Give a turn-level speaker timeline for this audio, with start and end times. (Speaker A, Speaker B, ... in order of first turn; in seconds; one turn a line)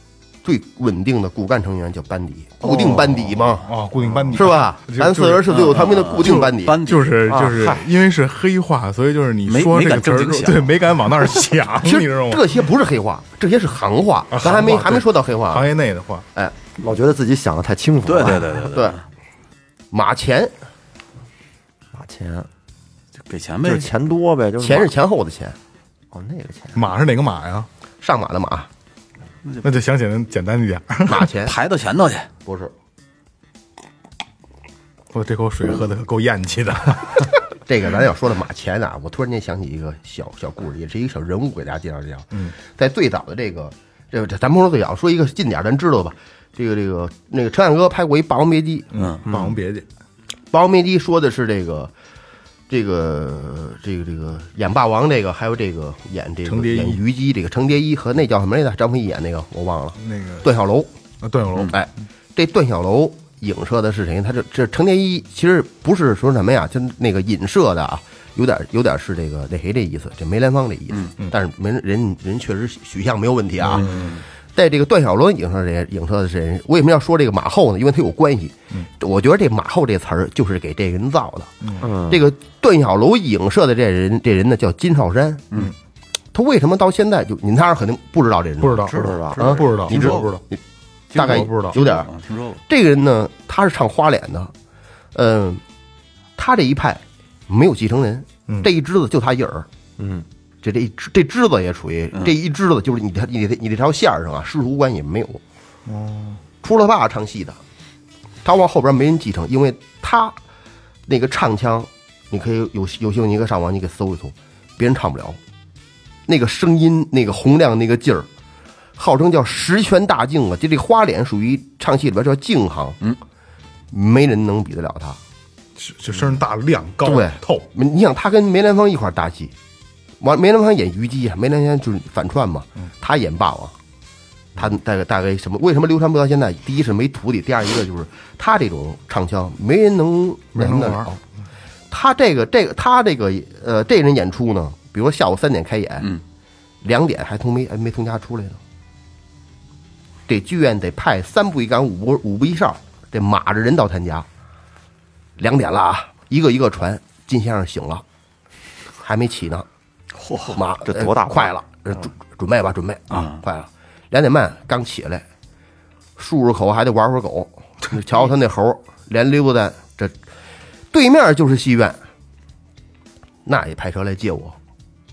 Speaker A: 0.4-3.7
Speaker B: 3.0-12.5
Speaker C: 4.0-4.3
Speaker A: 4.3-6.8
Speaker C: 5.5-7.2
Speaker D: 7.2-7.8
Speaker C: 9.5-10.7
Speaker A: 11.8-15.7
Speaker B: 14.3-16.2
Speaker D: 16.8-18.6
Speaker C: 18.0-19.0
Speaker A: 18.6-19.0
Speaker A: 19.9-20.5
Speaker D: 21.9-22.5
Speaker C: 23.3-23.9
Speaker D: 23.6-24.9
Speaker A: 24.6-25.6
Speaker D: 26.1-26.9
Speaker B: 26.7-27.7
Speaker A: 28.0-28.7
Speaker B: 29.6-31.3
Speaker A: 31.1-31.5
Speaker C: 31.4-32.3
Speaker A: 32.4-32.7
Speaker B: 35.1-37.4
Speaker A: 37.6-48.9
Speaker B: 48.9-49.9
Speaker C: 48.9-49.2
Speaker D: 49.2-49.6
Speaker A: 50.5-51.9
Speaker A: 52.7-60.9
Speaker B: 56.5-57.0
Speaker B: 60.0-60.5
Speaker B: 61.2-61.8
Speaker A: 61.6-74.0
Speaker B: 73.6-74.2
Speaker C: 73.7-74.2
Speaker A: 74.5-81.5
Speaker B: 81.6-81.9
Speaker D: 81.8-82.2
Speaker A: 82.0-85.4
Speaker A: 86.3-89.7
Speaker B: 88.6-90.4
Speaker D: 88.8-90.3
Speaker C: 89.0-90.3
Speaker A: 91.1-92.1
Speaker B: 91.2-91.8
Speaker C: 91.2-92.6
Speaker A: 92.7-94.5
Speaker A: 95.1-95.6
Speaker A: 96.3-99.7
Speaker D: 100.0-100.2
Speaker A: 100.6-105.4
Speaker B: 105.8-106.4
Speaker A: 106.6-107.6
Speaker A: 108.4-110.3
Speaker A: 111.1-115.4
Speaker A: 116.3-118.3
Speaker A: 119.0-123.0
Speaker A: 123.9-125.2
Speaker B: 125.8-127.7
Speaker A: 127.0-129.5
Speaker A: 130.2-133.7
Speaker A: 134.6-141.2
Speaker B: 140.6-141.1
Speaker A: 141.9-146.1
Speaker A: 146.8-148.6
Speaker A: 150.3-154.3
Speaker A: 155.4-158.0
Speaker A: 159.0-159.7
Speaker C: 160.1-160.6
Speaker A: 160.5-165.2
Speaker D: 160.8-161.5
Speaker C: 163.1-163.4
Speaker A: 166.2-170.1
Speaker A: 170.9-172.0
Speaker A: 173.4-174.6